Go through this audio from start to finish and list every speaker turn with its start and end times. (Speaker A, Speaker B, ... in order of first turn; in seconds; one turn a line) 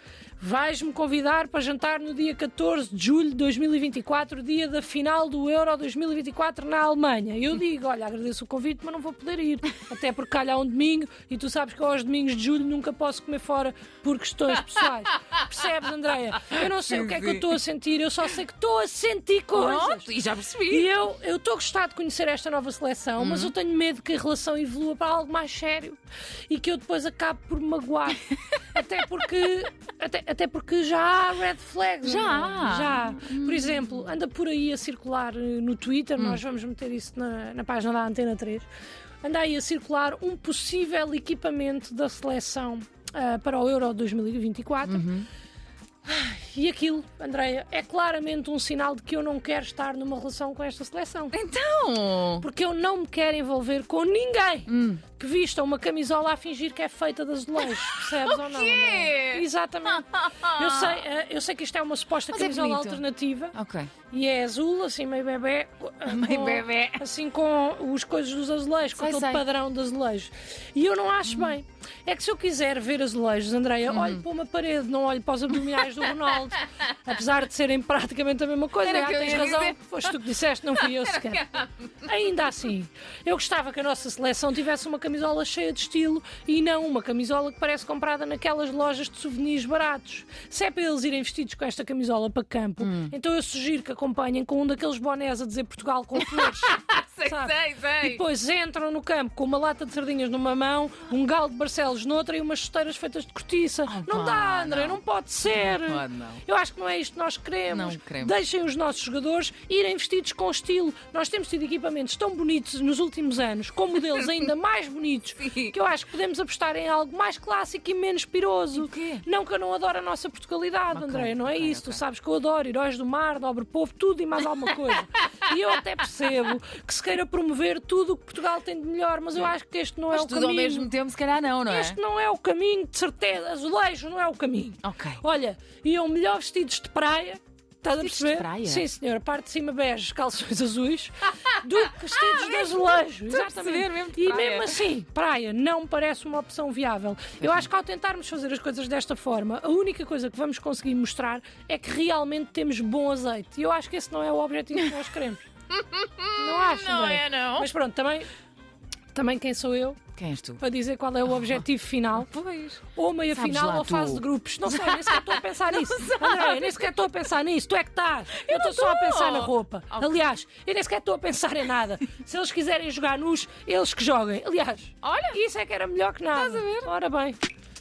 Speaker A: 0.4-20.1
Speaker B: 16.4-17.6
Speaker B: 19.5-20.9
Speaker A: 20.7-38.7
Speaker B: 23.2-23.5
Speaker B: 32.0-34.1
Speaker A: 39.2-45.1
Speaker B: 44.9-45.3
Speaker A: 46.0-51.4
Speaker B: 51.3-52.5
Speaker A: 52.4-63.6
Speaker B: 54.7-55.0
Speaker B: 57.6-61.0
Speaker B: 62.3-63.0
Speaker B: 63.5-63.9
Speaker A: 64.1-130.9
Speaker B: 66.1-67.0
Speaker B: 69.0-69.4
Speaker B: 71.3-71.5
Speaker B: 73.9-74.2
Speaker B: 78.8-80.2
Speaker B: 80.7-82.1
Speaker B: 92.8-93.1
Speaker B: 96.2-98.2
Speaker B: 103.9-106.4
Speaker B: 107.7-108.4
Speaker B: 115.4-115.7
Speaker B: 118.8-119.2
Speaker B: 120.9-122.0
Speaker B: 130.1-132.0
Speaker A: 131.7-155.4
Speaker B: 134.8-135.2
Speaker B: 138.0-138.8
Speaker B: 142.2-144.8
Speaker B: 147.4-147.7
Speaker B: 155.7-157.7
Speaker A: 156.3-158.3
Speaker A: 159.1-160.0
Speaker B: 160.2-160.6
Speaker A: 160.6-162.3
Speaker B: 161.3-161.6
Speaker B: 162.2-167.1
Speaker A: 162.9-177.4
Speaker B: 168.3-170.2
Speaker B: 175.0-175.4
Speaker B: 176.3-176.9